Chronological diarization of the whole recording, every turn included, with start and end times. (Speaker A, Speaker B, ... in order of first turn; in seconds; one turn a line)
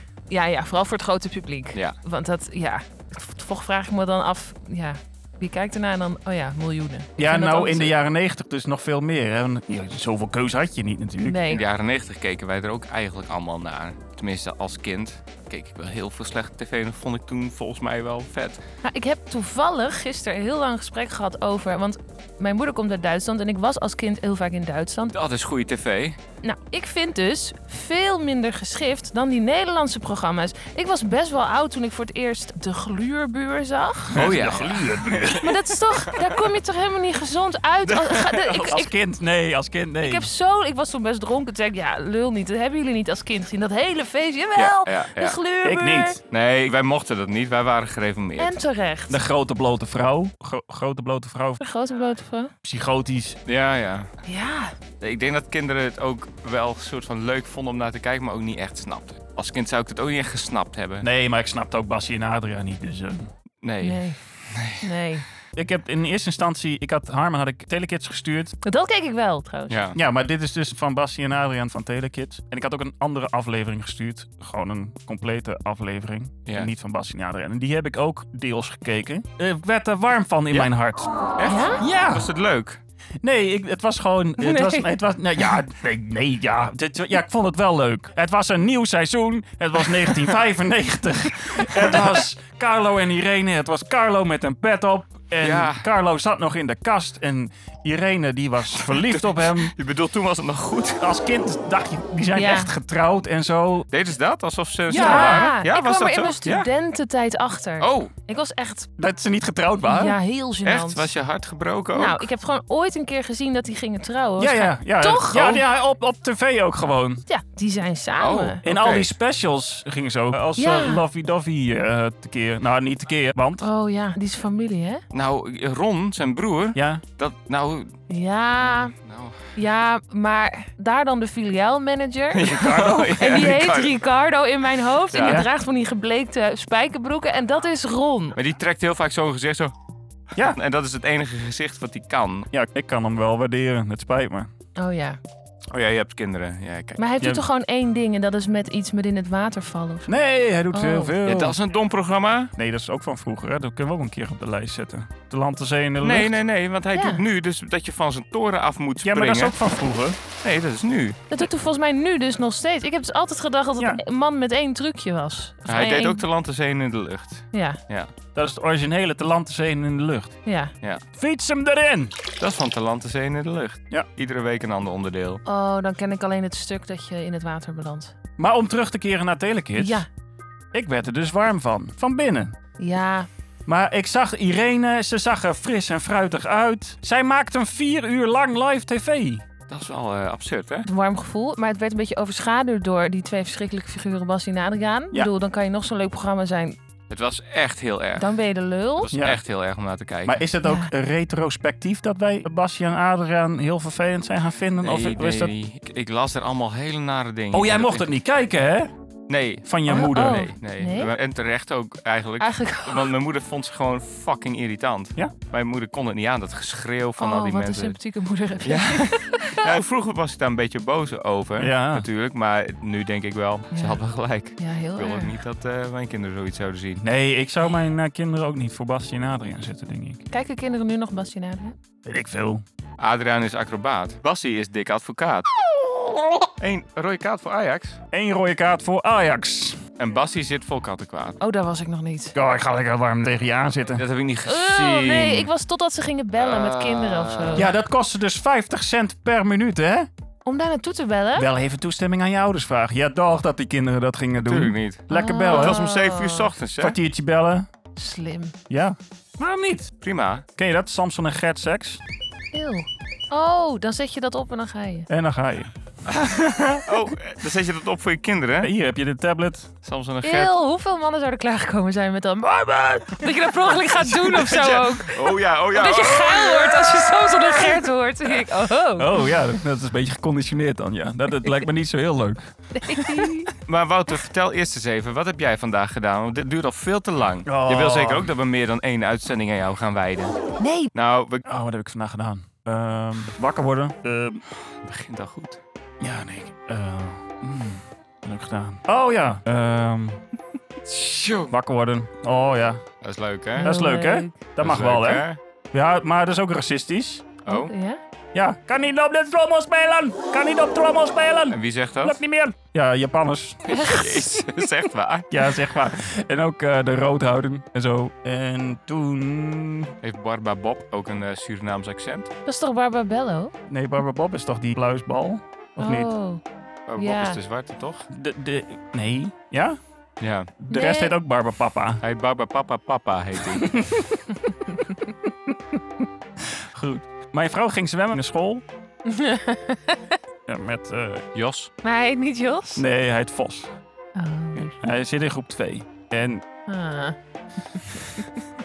Speaker A: 0.3-8.0
Speaker B: 7.2-11.4
Speaker A: 11.2-11.6
Speaker C: 11.5-18.6
Speaker A: 18.8-25.1
Speaker C: 25.1-26.2
Speaker A: 26.4-34.3
Speaker B: 34.1-35.7
Speaker C: 34.1-35.4
Speaker A: 35.4-38.9
Speaker C: 37.9-38.6
Speaker B: 38.5-40.3
Speaker A: 40.0-46.2
Speaker C: 44.5-45.4
Speaker B: 45.6-46.2
Speaker C: 46.3-48.6
Speaker A: 48.4-49.2
Speaker B: 49.1-51.6
Speaker A: 51.6-52.5
Speaker B: 52.6-53.4
Speaker C: 53.5-54.1
Speaker A: 54.2-54.7
Speaker C: 55.0-61.1
Speaker B: 61.0-63.3
Speaker C: 63.6-64.8
Speaker A: 63.8-64.2
Speaker A: 64.8-65.2
Speaker B: 65.5-68.6
Speaker A: 68.6-69.8
Speaker C: 69.7-70.0
Speaker B: 69.9-81.1
Speaker C: 81.3-82.8
Speaker A: 81.5-81.8
Speaker B: 81.8-82.2
Speaker B: 83.2-99.7
Speaker A: 84.4-84.9
Speaker C: 91.8-92.2
Speaker C: 95.4-95.9
Speaker C: 98.7-101.0
Speaker B: 101.0-103.9
Speaker A: 102.3-102.7
Speaker C: 103.9-106.7
Speaker B: 104.9-105.5
Speaker A: 104.9-108.9
Speaker C: 107.8-108.1
Speaker B: 109.0-110.2
Speaker A: 109.8-111.1
Speaker C: 110.6-112.3
Speaker A: 111.9-115.6
Speaker B: 114.4-117.2
Speaker A: 117.3-118.6
Speaker C: 118.2-119.1
Speaker B: 118.6-123.7
Speaker A: 120.5-121.0
Speaker A: 123.6-125.0
Speaker C: 125.1-127.9
Speaker B: 126.7-127.0
Speaker A: 128.1-128.9
Speaker C: 128.7-129.4
Speaker A: 129.6-132.5
Speaker C: 132.3-133.9
Speaker B: 132.4-133.5
Speaker A: 133.1-138.4
Speaker C: 135.1-135.4
Speaker B: 135.2-135.5
Speaker C: 138.3-139.7
Speaker C: 140.4-142.5
Speaker B: 142.5-144.5
Speaker A: 144.8-145.2
Speaker C: 145.7-147.0
Speaker A: 147.0-150.1
Speaker B: 150.1-151.6
Speaker A: 150.7-151.2
Speaker C: 151.2-152.5
Speaker B: 152.6-156.3
Speaker C: 156.0-159.6
Speaker A: 156.9-157.2
Speaker B: 159.0-160.2
Speaker C: 160.4-161.2
Speaker A: 161.3-166.2
Speaker C: 165.7-168.1
Speaker A: 167.5-167.8
Speaker B: 168.3-170.3
Speaker A: 170.4-170.7
Speaker B: 171.2-172.2
Speaker C: 172.4-175.4
Speaker A: 175.4-178.1
Speaker B: 178.4-180.0
Speaker A: 179.8-180.1
Speaker B: 180.7-182.6
Speaker A: 182.8-183.3
Speaker B: 183.7-189.4
Speaker C: 189.7-190.9
Speaker A: 190.8-196.8
Speaker C: 197.1-198.3
Speaker A: 198.2-199.1
Speaker C: 199.0-200.4
Speaker B: 199.1-199.4
Speaker B: 200.2-205.5
Speaker A: 200.6-200.9
Speaker C: 204.8-208.1
Speaker B: 207.5-208.9
Speaker C: 209.3-218.0
Speaker B: 209.7-210.5
Speaker A: 209.9-211.1
Speaker A: 212.4-213.1
Speaker A: 217.2-219.6
Speaker C: 218.6-227.0
Speaker B: 221.6-222.1
Speaker A: 223.7-224.0
Speaker A: 224.6-225.4
Speaker B: 227.0-230.2
Speaker A: 230.3-231.7
Speaker B: 232.0-232.6
Speaker C: 233.0-235.5
Speaker C: 236.6-238.0
Speaker B: 238.1-239.8
Speaker C: 240.0-241.4
Speaker A: 241.4-242.3
Speaker B: 242.3-244.0
Speaker C: 243.9-245.5
Speaker A: 244.4-247.7
Speaker C: 246.3-247.7
Speaker B: 247.5-250.1
Speaker A: 250.4-251.5
Speaker B: 251.3-255.8
Speaker C: 254.4-257.0
Speaker A: 255.1-256.5
Speaker B: 256.8-257.7
Speaker A: 257.9-258.5
Speaker B: 258.7-259.9
Speaker C: 260.0-260.4
Speaker B: 260.6-262.0
Speaker A: 262.5-265.1
Speaker B: 265.1-265.7
Speaker C: 266.1-268.7
Speaker B: 268.6-269.7
Speaker C: 269.8-270.6
Speaker A: 270.2-279.1
Speaker C: 274.0-277.4
Speaker B: 278.9-283.3
Speaker A: 282.7-283.5
Speaker C: 283.6-290.4
Speaker B: 287.4-288.3
Speaker A: 290.6-290.9
Speaker C: 290.9-291.4
Speaker B: 291.4-294.4
Speaker C: 294.8-295.6
Speaker B: 296.0-300.2
Speaker C: 300.9-301.5
Speaker B: 301.5-302.8
Speaker C: 303.0-303.7
Speaker A: 303.6-304.4
Speaker B: 303.6-307.3
Speaker C: 304.6-305.4
Speaker C: 307.4-307.7
Speaker A: 307.5-308.0
Speaker B: 308.3-314.0
Speaker C: 311.5-312.2
Speaker C: 313.7-315.3
Speaker A: 313.7-314.4
Speaker B: 315.3-319.9
Speaker C: 320.0-322.3
Speaker A: 322.4-323.5
Speaker B: 323.7-326.1
Speaker A: 325.8-326.4
Speaker C: 326.9-328.1
Speaker A: 327.0-327.4
Speaker B: 328.1-329.8
Speaker C: 330.2-330.5
Speaker B: 330.6-332.0
Speaker A: 330.7-331.2
Speaker C: 332.0-333.7
Speaker B: 333.5-334.2
Speaker B: 335.2-335.5
Speaker B: 336.4-338.6
Speaker A: 339.1-340.2
Speaker B: 340.5-341.2
Speaker C: 341.3-341.7
Speaker A: 341.8-342.8
Speaker B: 342.8-343.7
Speaker A: 344.1-344.9
Speaker B: 344.6-346.4
Speaker A: 346.7-347.2
Speaker A: 347.7-348.2